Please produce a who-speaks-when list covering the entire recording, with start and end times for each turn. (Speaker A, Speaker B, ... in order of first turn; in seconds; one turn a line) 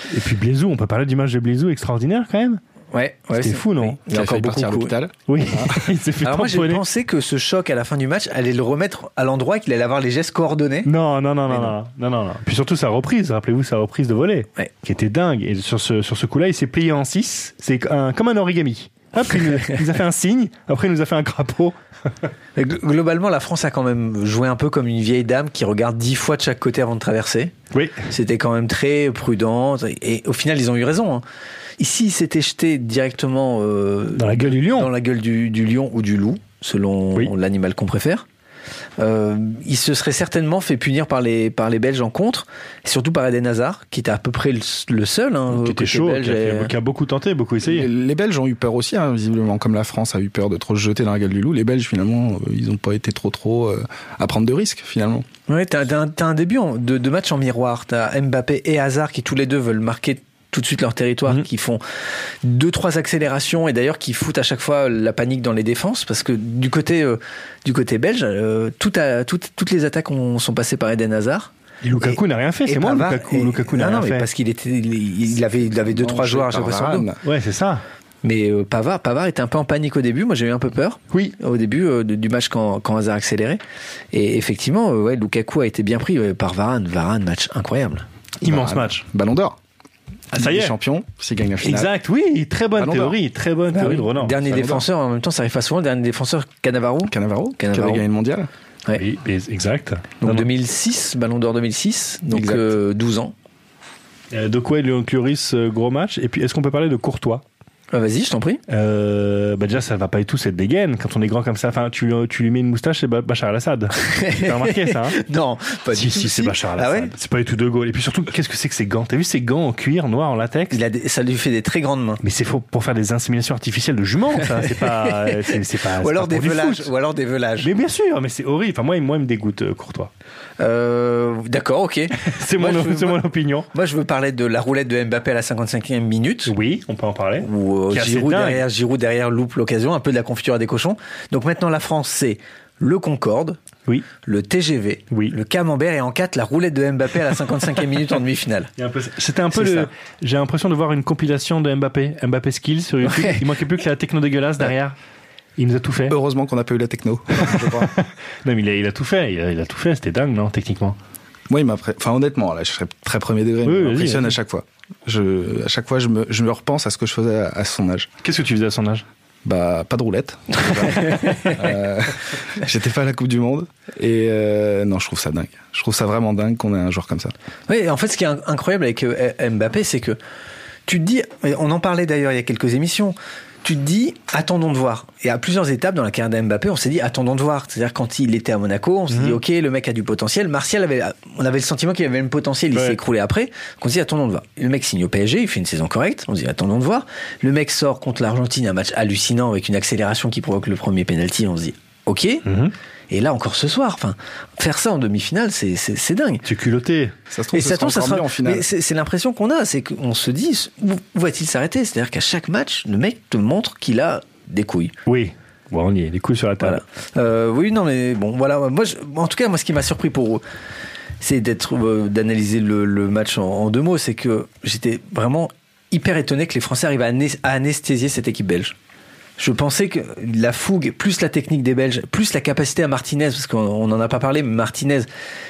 Speaker A: 0.1-2.6
Speaker B: 2.9-5.0
Speaker A: 3.3-4.0
Speaker C: 4.1-5.9
Speaker A: 5.3-6.8
Speaker B: 6.2-10.9
Speaker A: 10.8-21.7
Speaker B: 11.5-11.8
Speaker B: 22.6-27.5
Speaker A: 27.7-28.1
Speaker B: 28.1-31.2
Speaker B: 31.8-38.2
Speaker A: 34.2-34.9
Speaker B: 39.0-46.7
Speaker A: 45.5-47.9
Speaker C: 47.6-55.2
Speaker B: 55.5-61.8
Speaker B: 62.4-77.1
Speaker A: 71.8-74.3
Speaker C: 75.7-77.2
Speaker A: 77.2-77.8
Speaker B: 78.2-83.6
Speaker B: 84.1-88.0
Speaker A: 88.4-89.0
Speaker C: 88.4-89.6
Speaker A: 90.3-90.7
Speaker C: 90.3-91.9
Speaker A: 91.6-94.5
Speaker C: 92.8-93.2
Speaker B: 93.7-98.0
Speaker C: 94.4-94.8
Speaker C: 97.1-98.5
Speaker A: 98.9-100.5
Speaker B: 100.2-103.3
Speaker C: 102.3-102.8
Speaker A: 104.3-107.4
Speaker B: 107.9-108.6
Speaker A: 108.7-115.2
Speaker B: 114.0-117.1
Speaker A: 115.9-120.8
Speaker B: 120.7-122.2
Speaker A: 122.2-126.9
Speaker B: 124.6-127.7
Speaker A: 127.6-130.1
Speaker B: 130.6-136.5
Speaker A: 132.2-133.7
Speaker A: 136.4-138.7
Speaker B: 137.4-143.6
Speaker B: 144.2-148.7
Speaker A: 148.8-154.9
Speaker B: 149.5-149.9
Speaker B: 153.0-153.4
Speaker A: 155.6-156.2
Speaker C: 156.1-157.9
Speaker A: 157.5-161.0
Speaker C: 161.5-168.1
Speaker A: 163.6-164.3
Speaker A: 168.2-169.1
Speaker C: 169.4-177.3
Speaker B: 170.9-171.6
Speaker B: 177.7-180.2
Speaker B: 180.9-202.4
Speaker A: 189.1-189.4
Speaker A: 192.7-193.0
Speaker A: 202.4-202.7
Speaker B: 203.1-206.4
Speaker A: 206.4-207.1
Speaker C: 207.3-208.7
Speaker B: 207.5-214.9
Speaker A: 215.1-216.8
Speaker B: 216.6-220.4
Speaker B: 221.2-228.7
Speaker B: 229.4-235.1